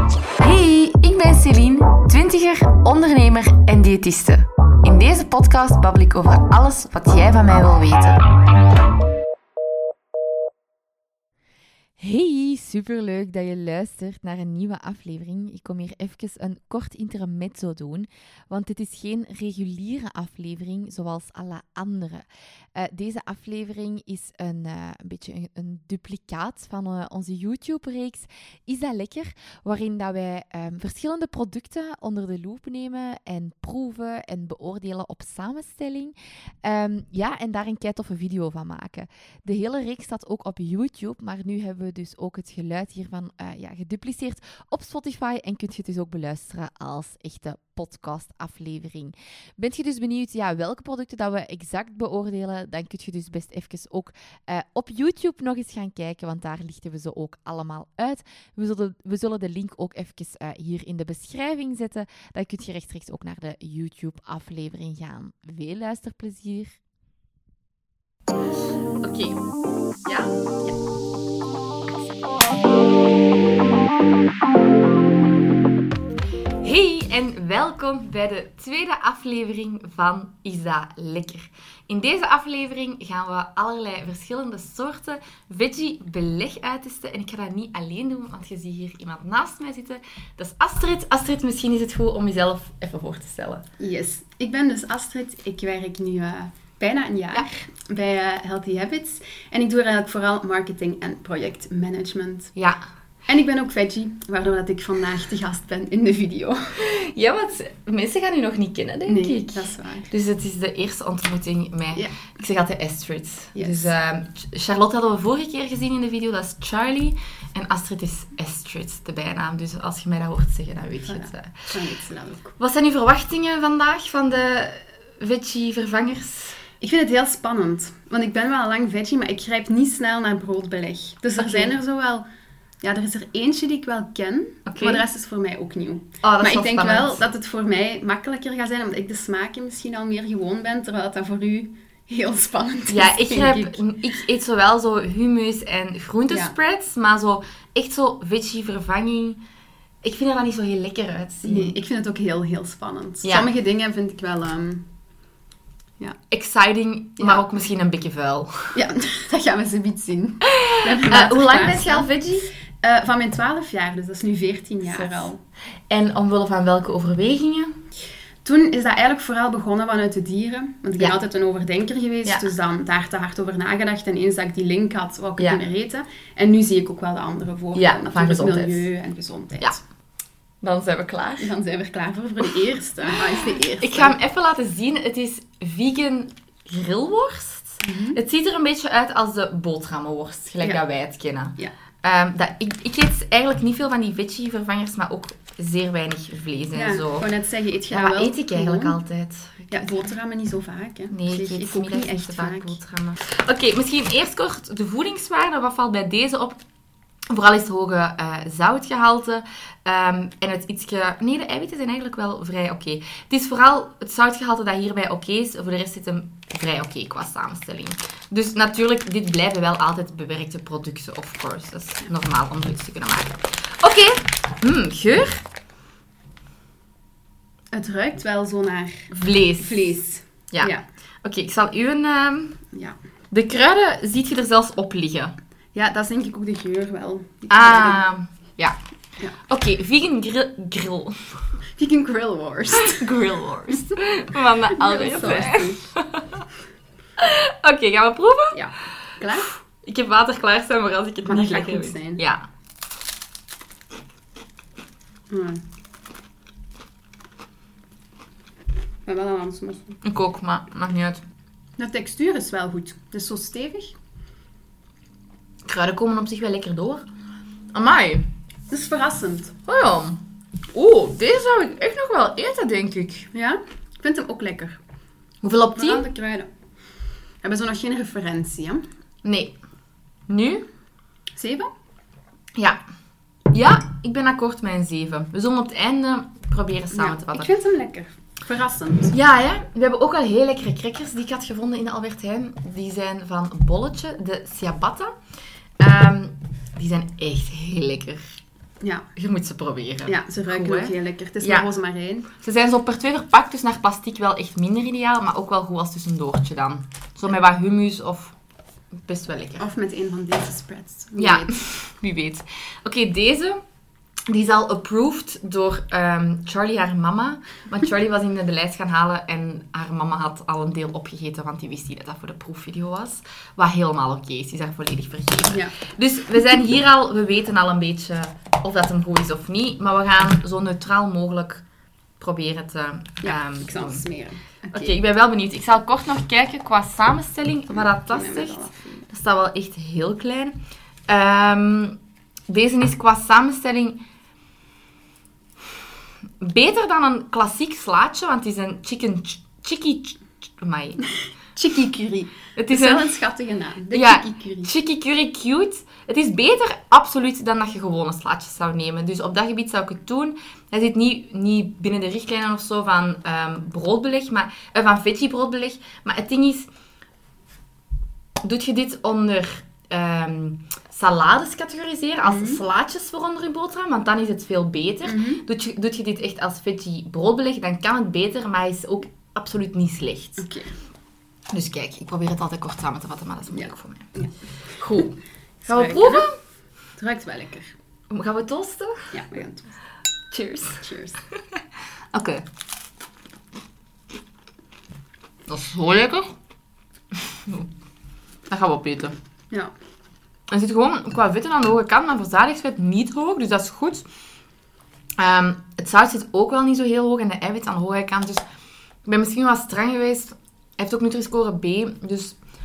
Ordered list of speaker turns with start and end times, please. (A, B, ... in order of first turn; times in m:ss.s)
0:00.4-0:08.2 A
0:12.0-1:06.8 A
1:09.0-1:09.4 A
1:10.0-1:10.4 A
1:16.6-1:33.6 A
1:33.8-1:42.5 B
1:42.5-1:42.8 A
1:43.3-1:46.8 B
1:46.8-2:01.7 A
1:49.1-1:50.1 B
1:53.5-1:53.9 B
2:01.0-2:02.6 B
2:02.6-2:06.6 A
2:06.8-2:12.2 B
2:11.4-2:11.7 A
2:12.8-2:23.8 B
2:14.6-2:15.0 A
2:16.2-2:17.2 A
2:22.9-2:29.4 A
2:26.3-2:26.5 B
2:30.0-2:31.8 A
2:31.4-2:34.8 B
2:33.2-2:33.5 A
2:36.3-2:38.8 A
2:37.2-2:37.5 B
2:38.7-2:42.1 B
2:40.4-2:42.5 A
2:42.7-2:45.4 B
2:44.9-2:45.3 A
2:45.9-2:47.8 A
2:48.4-2:59.8 B
2:57.7-2:58.9 A
3:00.6-3:01.5 A
3:01.4-3:04.2 B
3:03.8-3:17.3 A
3:07.8-3:08.2 B
3:16.7-3:19.0 B
3:17.9-3:20.0 A
3:19.7-3:22.8 B
3:21.1-3:26.6 A
3:27.3-3:45.4 A
3:47.7-3:50.8 B
3:49.1-3:49.9 A
3:50.5-3:52.6 A
3:53.3-3:55.3 A
3:55.7-3:58.1 B
3:57.5-3:58.8 A
3:59.4-4:01.4 A
4:01.8-4:03.2 B
4:02.7-4:06.4 A
4:03.7-4:04.0 B
4:04.7-4:05.9 B
4:07.2-4:08.6 A
4:08.5-4:09.6 B
4:09.7-4:12.4 A
4:11.2-4:12.2 B
4:15.3-4:15.6 B
4:19.0-4:20.0 B
4:20.0-4:21.2 A
4:21.8-4:23.9 B
4:25.6-4:27.0 A
4:27.7-4:28.3 A
4:28.7-4:29.5 B
4:29.6-4:30.2 A
4:30.7-4:33.3 A
4:33.3-4:34.8 B
4:35.4-4:36.1 A
4:35.8-4:36.5 B
4:37.4-4:38.8 B
4:39.2-4:39.6 A
4:40.3-4:40.6 A
4:41.4-4:41.7 B
4:42.5-4:42.8 A
4:43.5-4:47.5 A
4:46.9-4:49.2 B
4:49.1-4:55.1 A
4:55.8-4:58.4 A
4:58.8-4:59.1 B
4:59.2-5:01.7 A
5:00.0-5:02.3 B
5:02.3-5:08.3 A
5:09.0-5:09.6 A
5:09.6-5:11.6 B
5:11.2-5:13.6 A
5:14.3-5:31.6 A
5:25.5-5:25.7 B
5:32.2-5:34.0 A
5:33.2-5:35.0 B
5:34.7-5:44.0 A
5:37.7-5:39.0 B
5:46.4-5:51.0 A
5:51.6-5:54.7 B
5:52.6-5:53.1 A
5:53.9-6:06.7 A
6:08.4-6:20.4 A
6:12.2-6:12.6 B
6:15.0-6:15.4 B
6:20.4-6:20.7 B
6:21.5-6:24.1 A
6:23.5-6:24.3 B
6:24.8-6:26.3 A
6:25.6-6:26.3 B
6:27.0-6:27.7 B
6:28.1-6:29.1 A
6:29.1-6:29.8 B
6:30.3-6:30.8 A
6:30.6-6:31.2 B
6:32.1-6:32.5 A
6:35.5-6:36.3 A
6:37.1-6:37.7 A
6:38.5-6:39.1 A
6:40.5-6:44.0 A
6:45.2-6:48.4 A
6:49.0-6:52.4 A